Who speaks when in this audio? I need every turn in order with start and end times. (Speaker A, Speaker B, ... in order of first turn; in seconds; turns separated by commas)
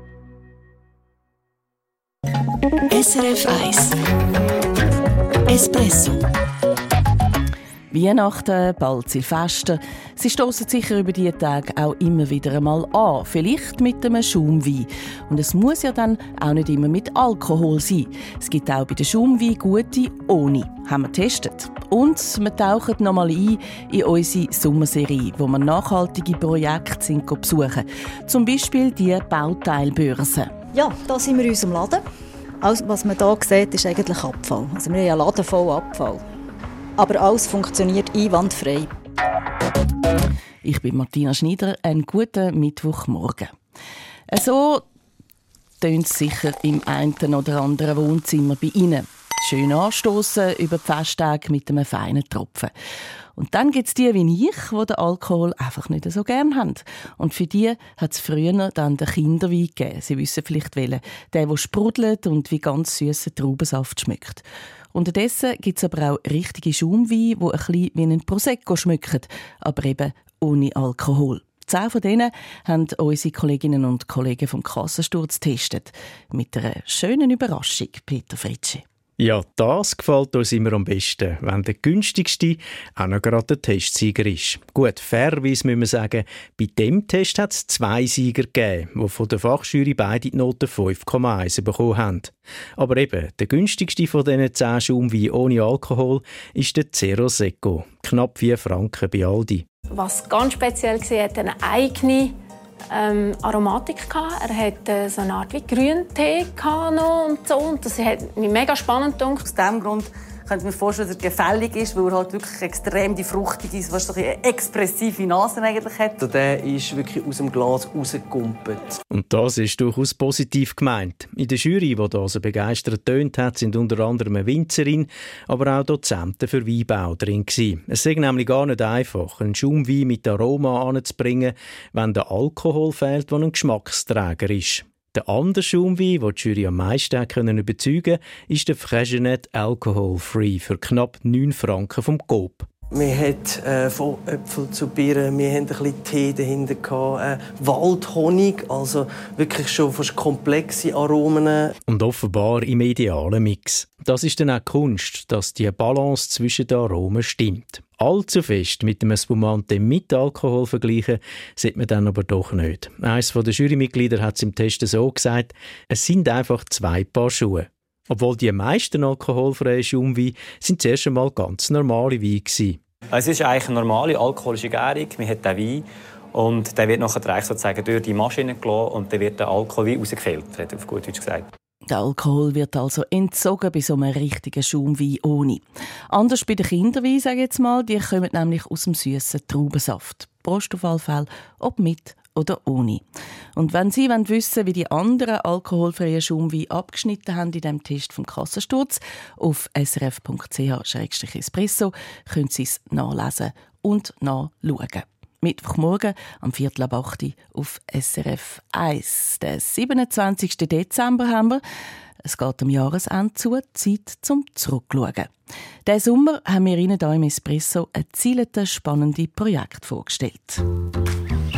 Speaker A: 7.9-30.5, Speaker B: 30.7-32.0, Speaker B: 32.6-36.2, Speaker B: 37.0-38.9, Speaker A: 40.6-43.5, Speaker A: 44.3-44.8, Speaker A: 45.8-52.7, Speaker A: 53.4-78.8, Speaker C: 79.2-99.7, Speaker D: 99.9-102.4, Speaker D: 102.9-109.4, Speaker E: 109.5-116.0, Speaker F: 116.2-119.0, Speaker C: 119.1-142.7, Speaker F: 142.9-151.7, Speaker C: 151.9-172.8, Speaker G: 173.1-181.5, Speaker A: 181.9-193.0, Speaker A: 193.6-211.6, Speaker A: 212.2-215.3, Speaker A: 215.8-220.6